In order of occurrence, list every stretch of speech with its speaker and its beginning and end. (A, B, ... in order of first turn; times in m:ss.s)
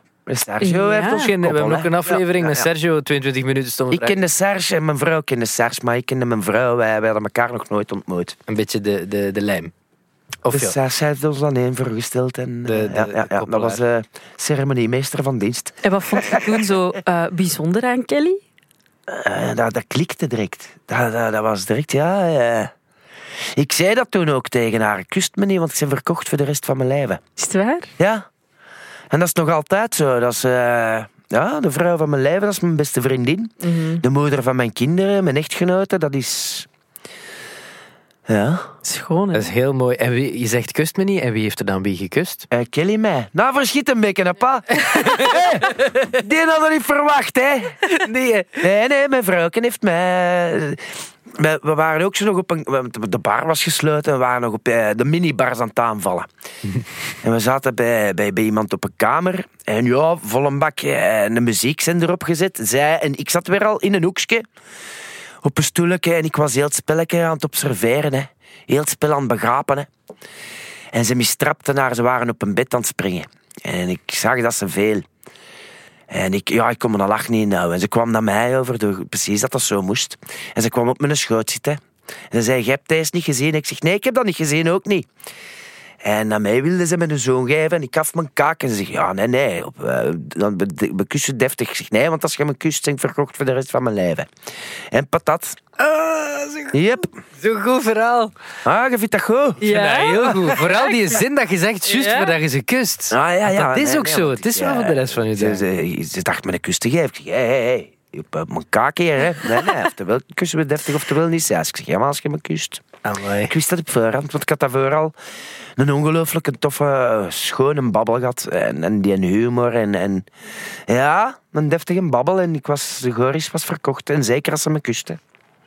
0:00.3-0:02.7 A
0:00.6-0:01.3 B
0:01.1-0:04.2 C
0:03.9-0:08.4 A
0:08.5-0:09.7 C
0:10.4-0:10.8 C
0:10.5-0:16.6 A
0:12.6-0:13.8 C
0:15.8-0:18.4 B
0:19.1-0:22.7 A
0:23.6-0:27.2 A
0:27.4-0:27.9 B
0:28.0-0:28.3 A
0:29.1-0:36.7 A
0:33.6-0:34.0 B
0:38.3-0:38.7 A
0:38.8-0:39.5 B
0:39.3-0:42.5 C
0:42.5-0:47.8 A
0:45.0-0:45.6 C
0:47.9-0:48.6 C
0:48.6-0:56.3 A
0:57.2-1:04.5 A
1:05.4-1:09.9 A
1:10.9-1:15.0 A
1:16.1-1:25.1 A
1:26.0-1:34.3 A
1:34.9-1:35.6 A
1:35.8-1:36.8 C
1:36.7-1:37.1 A
1:37.4-1:38.3 C
1:38.6-1:40.5 A
1:39.6-1:41.0 B
1:39.6-1:45.6 C
1:41.9-1:42.3 B
1:43.1-1:52.8 A
1:53.0-1:53.5 C
1:53.5-1:55.1 A
1:55.8-2:00.3 A
2:00.9-2:05.2 A